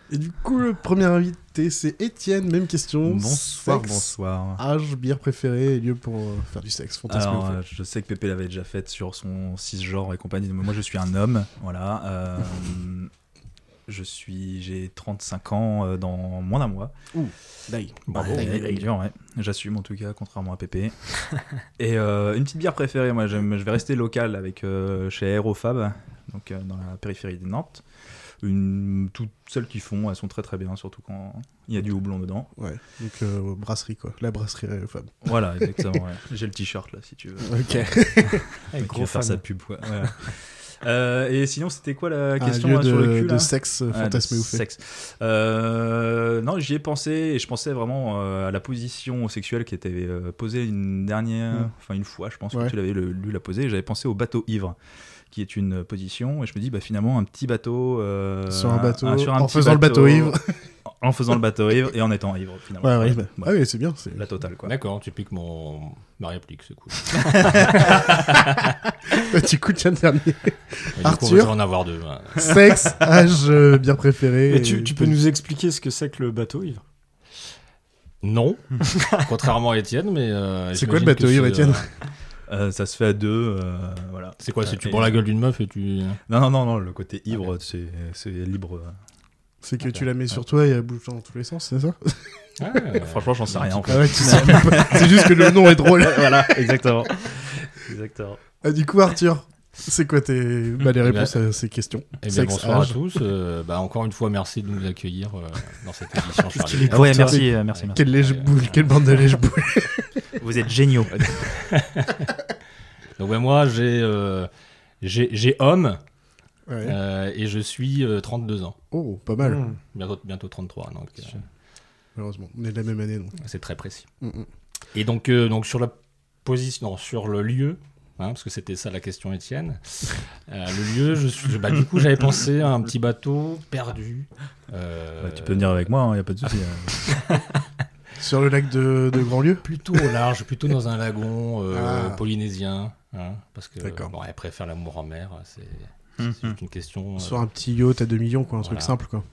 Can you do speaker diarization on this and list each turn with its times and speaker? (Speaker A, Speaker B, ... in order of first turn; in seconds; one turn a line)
Speaker A: 0.1-7.6
Speaker B: 3.0-4.6
Speaker B: 7.1-13.1
Speaker B: 13.9-16.9
Speaker A: 17.1-18.5
Speaker C: 18.1-18.8
Speaker B: 18.2-20.9
Speaker B: 21.8-27.8
Speaker B: 28.4-32.5
Speaker A: 32.6-36.0
Speaker B: 35.2-54.8
Speaker A: 37.4-38.4
Speaker D: 38.7-39.4
Speaker A: 42.4-44.6
Speaker B: 55.3-60.4
Speaker A: 58.5-60.4
Speaker B: 60.9-63.5
Speaker A: 62.8-64.2
Speaker B: 64.2-64.7
Speaker C: 64.6-67.9
Speaker B: 67.3-68.1
Speaker A: 69.2-71.6
Speaker C: 71.0-72.6
Speaker A: 72.4-75.2
Speaker D: 74.5-76.8
Speaker C: 78.2-81.9
Speaker A: 80.7-81.9
Speaker B: 82.5-85.2
Speaker C: 84.4-86.2
Speaker B: 86.3-89.0
Speaker A: 89.6-92.5
Speaker C: 92.6-94.7
Speaker B: 93.0-98.4
Speaker A: 93.9-97.1
Speaker A: 98.6-103.0
Speaker C: 101.0-101.4
Speaker C: 102.2-109.1
Speaker A: 106.5-110.3
Speaker B: 106.9-108.0
Speaker B: 110.4-111.2
Speaker C: 111.2-112.3
Speaker C: 113.2-114.5
Speaker C: 115.0-116.0
Speaker A: 116.7-117.0
Speaker C: 116.8-118.8
Speaker A: 118.9-119.7
Speaker D: 119.4-119.8
Speaker C: 119.9-121.4
Speaker A: 122.2-123.4
Speaker C: 123.4-124.1
Speaker A: 124.2-124.5
Speaker C: 124.9-135.9
Speaker B: 135.2-137.2
Speaker A: 138.2-139.7
Speaker C: 139.6-147.5
Speaker A: 141.7-142.2
Speaker A: 143.8-144.1
Speaker B: 146.2-146.6
Speaker A: 147.2-149.3
Speaker C: 148.6-149.0